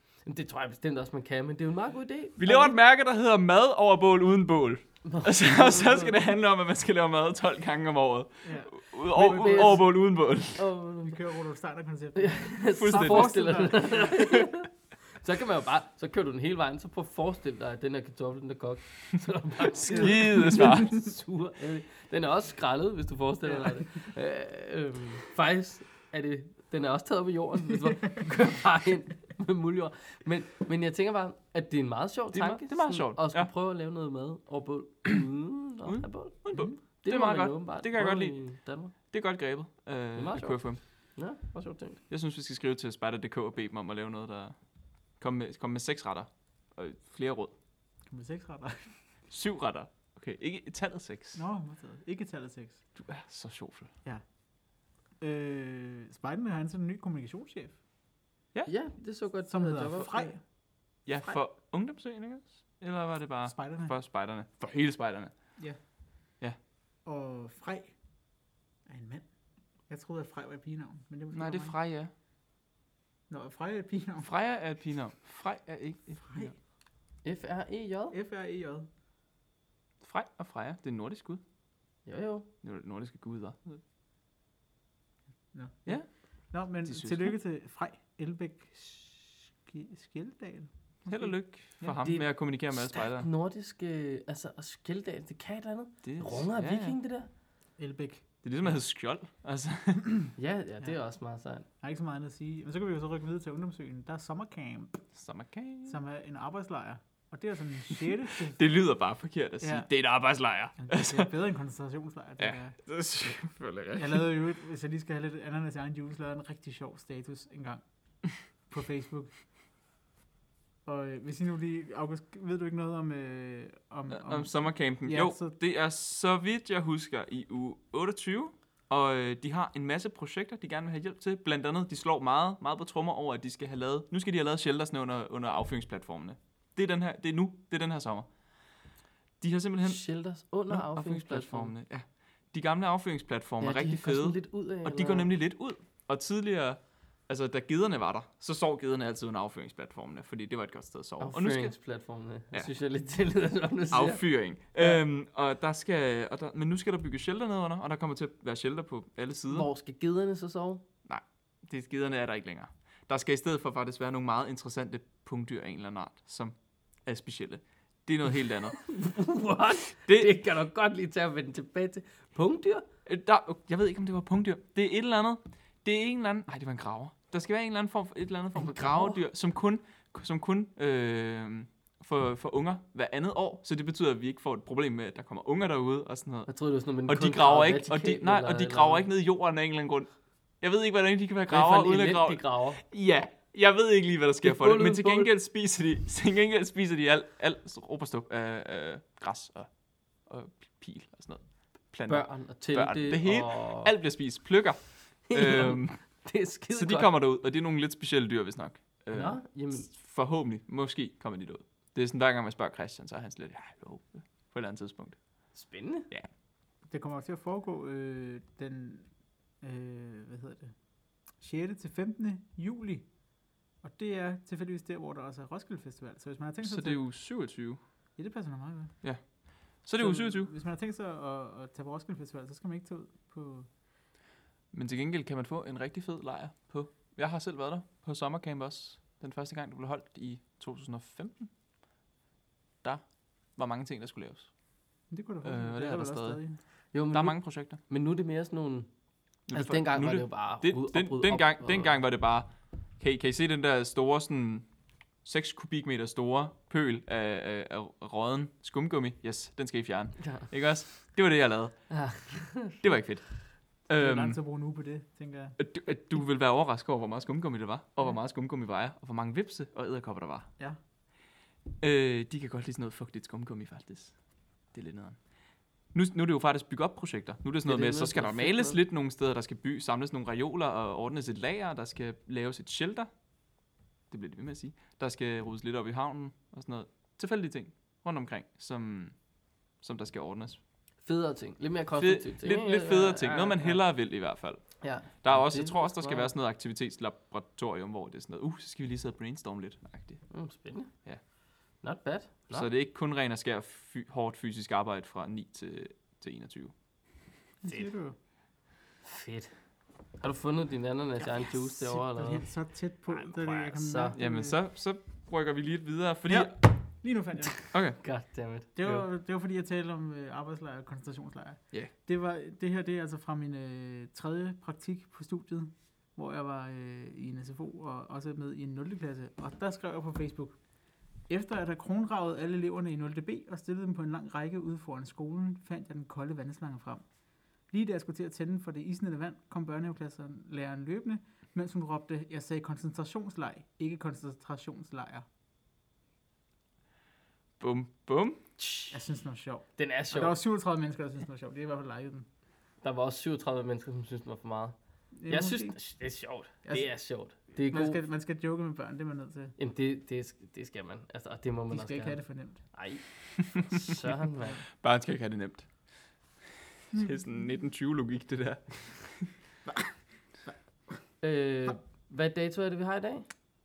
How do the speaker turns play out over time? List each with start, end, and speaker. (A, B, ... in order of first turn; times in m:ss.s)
0:00.2-0:02.7 A
0:02.4-0:10.6 B
0:05.0-0:06.1 A
0:08.4-0:09.9 C
0:09.4-0:09.9 A
0:10.6-0:11.2 A
0:11.0-0:14.2 C
0:12.1-0:38.9 A
0:12.7-0:13.7 B
0:19.9-0:20.8 C
0:19.9-0:21.0 B
0:32.3-0:33.5 B
0:35.8-0:38.4 B
0:36.5-0:36.8 C
0:39.1-0:40.8 B
0:40.1-0:42.0 A
0:42.1-0:44.6 B
0:45.2-0:47.5 B
0:48.1-0:48.9 C
0:49.3-0:51.4 B
0:51.4-0:52.8 C
0:53.0-0:53.9 B
0:55.2-0:57.8 C
0:58.7-1:00.3 A
0:59.5-1:00.4 C
1:01.0-1:05.3 B
1:03.4-1:03.9 C
1:07.0-1:07.9 C
1:08.8-1:09.3 C
1:09.9-1:11.7 C
1:11.3-1:12.1 B
1:13.3-1:14.3 C
1:14.2-1:16.5 B
1:16.3-1:16.5 C
1:17.2-1:18.2 A
1:18.1-1:18.9 C
1:20.0-1:21.4 B
1:22.0-1:22.5 A
1:22.6-1:23.8 B
1:25.5-1:26.0 C
1:26.5-1:31.9 C
1:26.8-1:27.3 B
1:31.1-1:33.3 B
1:32.0-1:37.3 A
1:36.0-1:37.0 B
1:37.8-1:38.7 C
1:38.4-1:40.3 B
1:40.4-1:41.7 A
1:41.8-1:45.0 C
1:45.1-1:46.0 B
1:45.8-1:48.6 C
1:48.5-1:51.3 B
1:49.6-1:49.9 C
1:50.8-1:52.8 C
1:52.4-1:54.2 B
1:54.0-1:57.8 C
1:58.7-1:59.3 C
2:00.8-2:05.5 C
2:04.1-2:18.3 B
2:19.4-2:20.1 B
2:19.8-2:21.7 A
2:20.6-2:31.7 B
2:23.6-2:25.3 A
2:31.2-2:34.2 A
2:33.9-2:39.7 B
2:39.5-2:40.8 A
2:41.0-2:46.5 B
2:47.0-2:48.8 B
2:48.8-2:52.8 A
2:50.0-2:50.3 B
2:53.0-3:06.5 B
2:58.5-2:59.2 A
3:06.5-3:09.0 A
3:07.0-3:10.1 B
3:10.6-3:19.7 B
3:11.5-3:12.8 A
3:14.4-3:15.3 A
3:20.2-3:35.2 B
3:22.1-3:23.9 A
3:25.3-3:27.1 A
3:29.1-3:29.9 A
3:35.5-3:36.1 A
3:36.9-3:39.1 C
3:39.6-3:40.7 C
3:41.4-3:43.1 C
3:43.8-3:47.0 C
3:46.6-3:47.8 B
3:48.2-3:49.0 C
3:49.0-3:50.5 B
3:50.0-3:53.7 C
3:54.7-4:01.5 B
4:03.5-4:04.5 B
4:05.1-4:06.6 C
4:05.4-4:06.4 B
4:06.9-4:08.9 A
4:07.1-4:07.8 B
4:09.5-4:14.7 B
4:09.5-4:11.9 A
4:15.2-4:22.0 B
4:20.2-4:20.5 A
4:21.9-4:22.8 A
4:22.7-4:24.4 B
4:23.9-4:25.6 C
4:25.6-4:30.5 B
4:31.8-4:34.2 B
4:34.7-4:35.2 B
4:35.9-4:43.1 B
4:37.6-4:38.8 A
4:44.1-4:49.1 B
4:49.8-4:50.6 B
4:51.0-4:53.8 A
4:52.0-5:00.2 B
4:54.8-4:56.3 A
5:00.3-5:00.9 A
5:01.8-5:02.7 A
5:02.5-5:06.7 B
5:07.6-5:08.2 C
5:09.0-5:09.6 A
5:10.2-5:12.5 A
5:11.4-5:14.6 C
5:13.1-5:14.2 A
5:14.1-5:16.5 B
5:16.3-5:17.6 C
5:17.6-5:19.0 A
5:17.7-5:18.0 B
5:18.8-5:30.6 C
5:31.3-5:37.0 C
5:37.7-5:45.2 C
5:47.6-5:48.4 B
5:48.6-5:48.9 A
5:48.9-5:52.3 C
5:49.8-5:50.4 A
5:52.8-5:54.8 A
5:55.2-5:55.8 C
5:55.3-5:58.0 A
5:56.6-5:56.9 C
5:57.6-5:59.5 C
5:59.6-6:04.6 A
6:01.7-6:02.6 C
6:04.8-6:05.7 B
6:06.8-6:09.3 B
6:09.7-6:09.9 C
6:11.2-6:13.3 A